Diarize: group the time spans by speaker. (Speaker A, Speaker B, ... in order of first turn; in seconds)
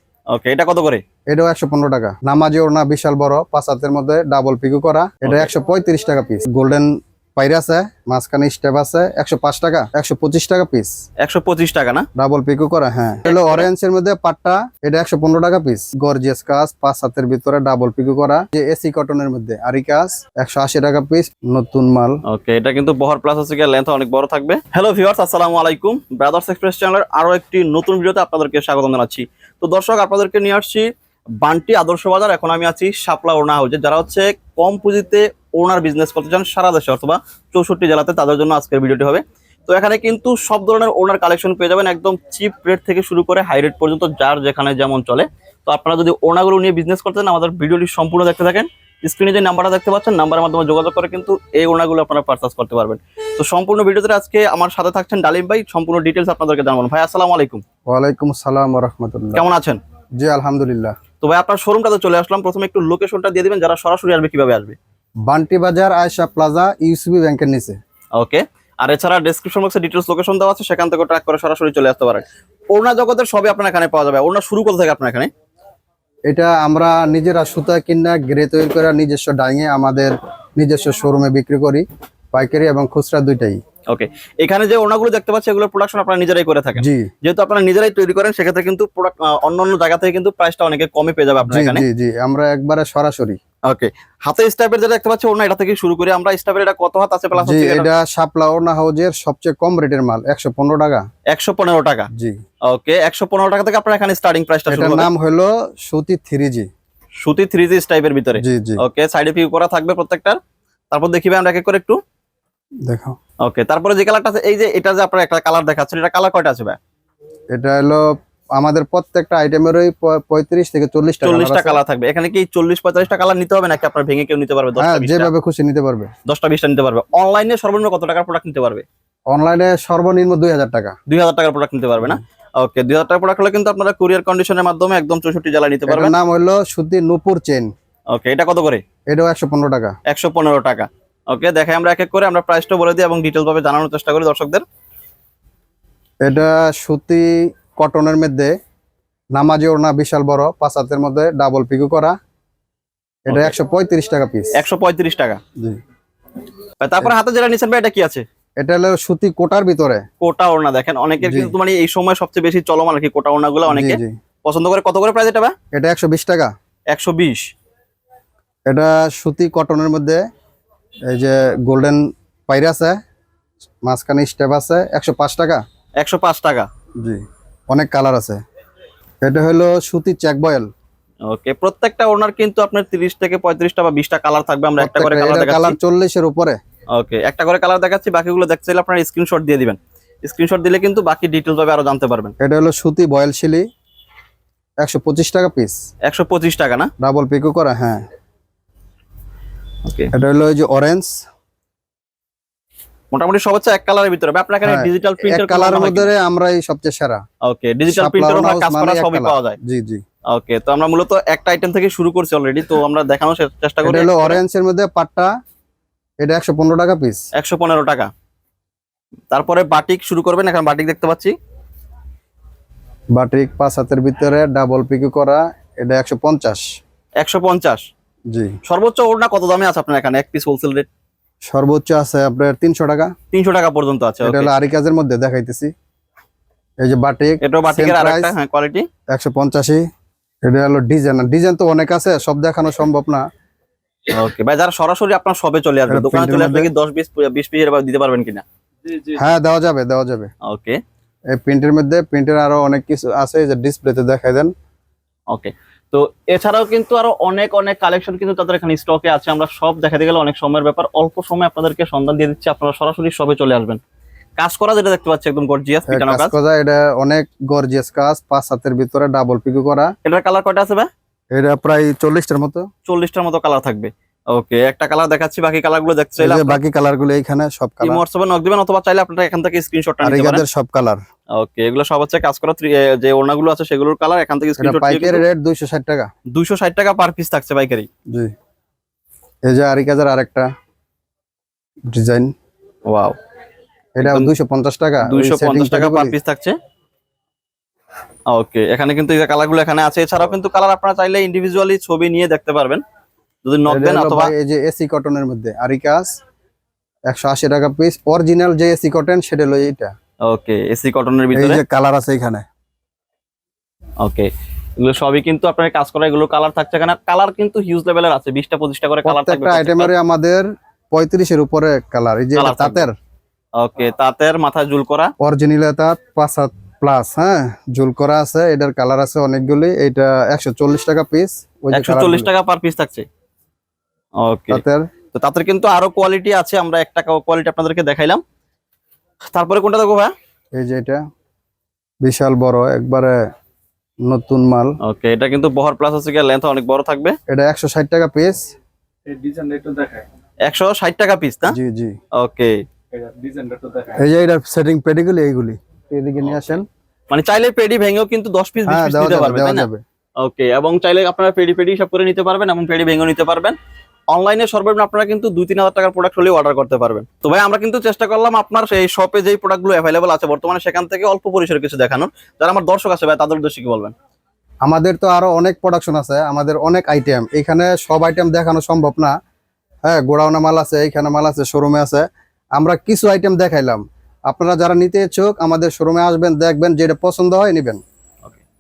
Speaker A: 0.3-1.0, 5.2-5.5, 11.2-12.1, 13.3-13.7, 22.3-30.9, 31.4-57.6, 59.4-59.8, 61.2-64.8, 68.2-75.3, 83.9-91.8, 93.7-97.9, 101.3-102.1, 102.7-105.1, 107.2-110.4, 110.9-112.0, 113.4-116.8, 121.2-125.3, 126.3-128.8, 131.1-136.1, 138.1-138.8, 140.1-144.6, 154.6-155.4, 156.8-158.2, 160.2-165.6, 166.9-167.4, 176.0-176.7, 181.3-185.8, 187.0-192.3, 196.1-196.9, 203.1-206.1, 207.4-209.6, 210.3-214.4, 217.4-218.1, 219.3-221.3, 227.2-227.8, 228.7-230.9, 233.3-234.6, 237.4-238.9, 244.1-248.4, 250.5-250.8, 255.3-263.8, 264.4-266.3, 270.0-270.9, 272.9-276.6, 277.8-280.4, 281.4-285.2, 286.4-287.9, 292.9-293.1, 294.0-294.3, 295.1-296.6, 298.3-302.8, 303.4-304.3, 310.3-311.6, 314.0-314.3, 314.8-319.9, 322.4-322.9, 323.6-325.1, 331.7-333.1, 334.2-334.6, 335.1-338.2, 339.3-340.1, 344.8-347.2, 350.4-351.6, 352.2-352.5, 356.2-356.5, 357.1-359.7, 360.2-363.6, 364.1-373.9
Speaker B: 1.3-10.9, 12.2-22.2, 57.9-59.4, 60.2-61.0, 65.3-67.8, 76.3-83.6, 86.8-87.1, 91.5-93.4, 97.4-101.0, 104.7-106.7, 108.4-108.8, 112.9-113.2, 117.5-118.0, 118.6-121.8, 124.8-126.1, 129.3-130.9, 135.9-137.7, 139.1-139.9, 146.2-148.5, 149.3-152.2, 153.3-154.6, 158.6-160.0, 161.2-161.5, 163.7-164.1, 165.7-166.5, 168.7-170.2, 171.1-173.0, 173.9-175.6, 177.0-178.4, 179.2-180.7, 184.8-186.6, 192.4-193.7, 194.8-195.8, 197.0-198.0, 200.1-201.2, 204.6-207.2, 207.9-210.0, 213.8-215.3, 216.2-217.2, 223.2-226.7, 228.3-228.6, 231.5-233.1, 234.2-235.7, 236.8-238.3, 239.1-239.8, 240.5-243.2, 245.9-246.7, 249.1-250.3, 251.3-254.5, 265.9-269.9, 271.3-272.7, 276.2-278.0, 280.0-281.0, 284.6-286.1, 289.5-290.5, 291.9-292.3, 294.0-296.1, 303.7-306.2, 307.1-309.9, 311.4-312.4, 319.1-322.9, 325.2-332.3, 334.5-334.8, 340.6-341.0, 342.0-343.2, 344.1-344.8, 347.3-348.4, 351.5-351.9, 354.0-356.6, 358.7-359.8, 374.6-379.1, 379.9-382.1, 382.6-387.8
Speaker C: 349.1-350.1, 353.0-354.0